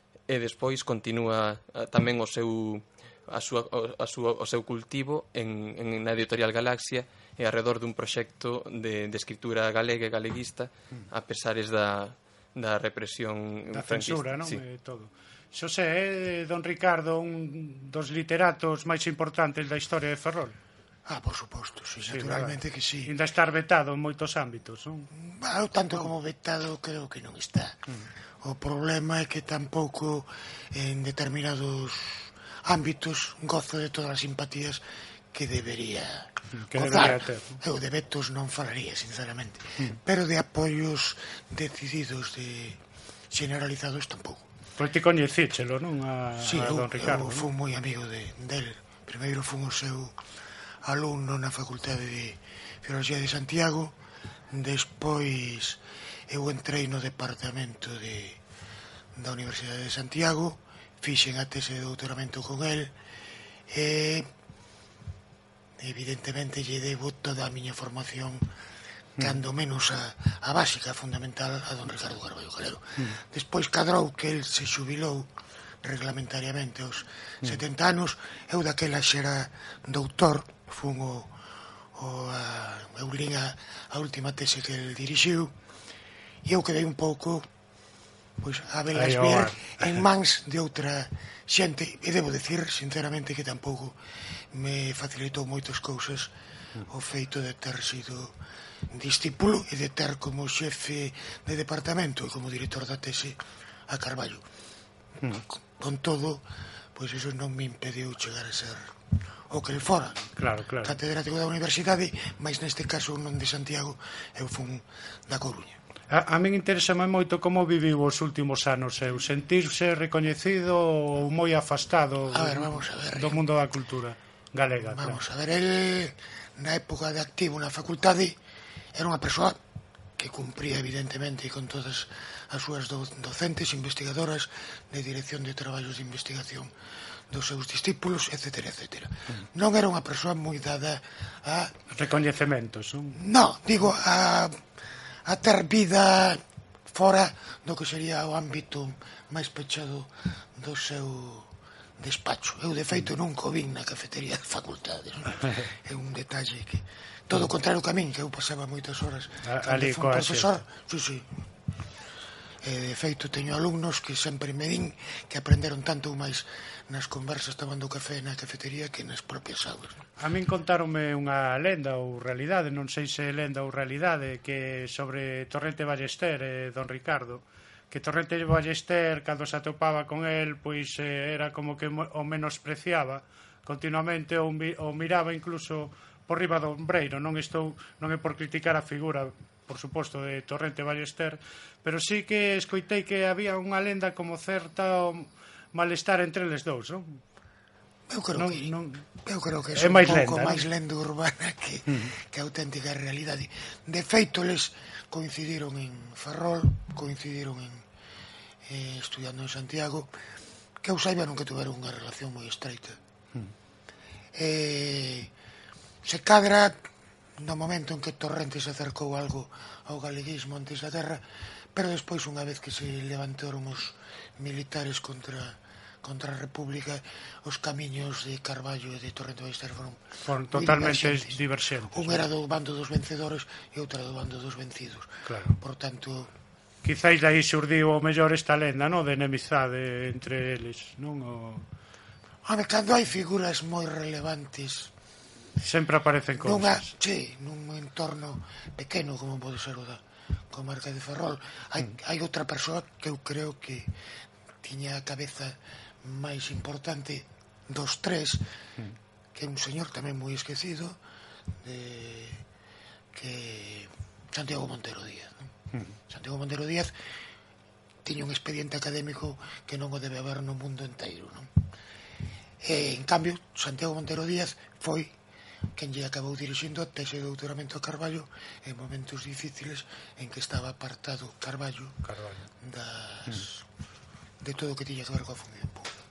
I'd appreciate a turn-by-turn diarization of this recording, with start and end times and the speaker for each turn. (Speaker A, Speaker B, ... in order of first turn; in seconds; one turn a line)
Speaker A: 0.3-14.6
Speaker B: 13.8-20.5
Speaker C: 21.1-23.1
Speaker B: 23.4-25.1
Speaker C: 25.1-27.8
Speaker C: 28.4-44.5
Speaker B: 36.7-37.5
Speaker B: 44.8-47.4
Speaker C: 46.4-50.2
Speaker C: 50.8-54.0
Speaker C: 54.5-58.4
Speaker C: 59.1-62.9
Speaker C: 63.7-64.3
Speaker C: 65.8-68.5
Speaker C: 69.2-75.3
Speaker C: 75.8-81.3
Speaker C: 81.9-85.5
Speaker C: 86.4-87.5
Speaker C: 88.4-94.0
Speaker B: 89.3-89.7
Speaker C: 94.5-96.3
Speaker C: 96.8-98.4
Speaker C: 98.9-104.4
Speaker C: 105.3-108.9
Speaker C: 109.5-115.8
Speaker B: 110.4-110.8
Speaker B: 116.1-122.6
Speaker C: 122.3-123.4
Speaker B: 123.4-125.1
Speaker C: 124.8-128.4
Speaker C: 128.9-129.6
Speaker C: 130.2-136.7
Speaker C: 137.3-141.7
Speaker B: 142.1-143.1
Speaker C: 143.1-144.6
Speaker C: 145.2-161.3
Speaker B: 159.9-160.4
Speaker C: 162.6-170.0
Speaker B: 170.2-197.0
Speaker C: 198.1-207.8
Speaker B: 199.8-200.5
Speaker C: 208.7-210.1
Speaker C: 210.8-213.0
Speaker C: 214.3-215.3
Speaker C: 216.0-236.3
Speaker B: 230.5-232.2
Speaker B: 236.9-241.6
Speaker C: 242.4-244.9
Speaker B: 245.7-246.8
Speaker C: 246.4-253.9
Speaker C: 254.6-258.4
Speaker C: 259.3-261.0
Speaker C: 261.6-262.4
Speaker C: 263.1-265.5
Speaker C: 266.1-266.9
Speaker C: 268.0-271.5
Speaker C: 272.6-275.1
Speaker C: 275.7-282.0
Speaker C: 282.6-283.6
Speaker C: 284.4-285.9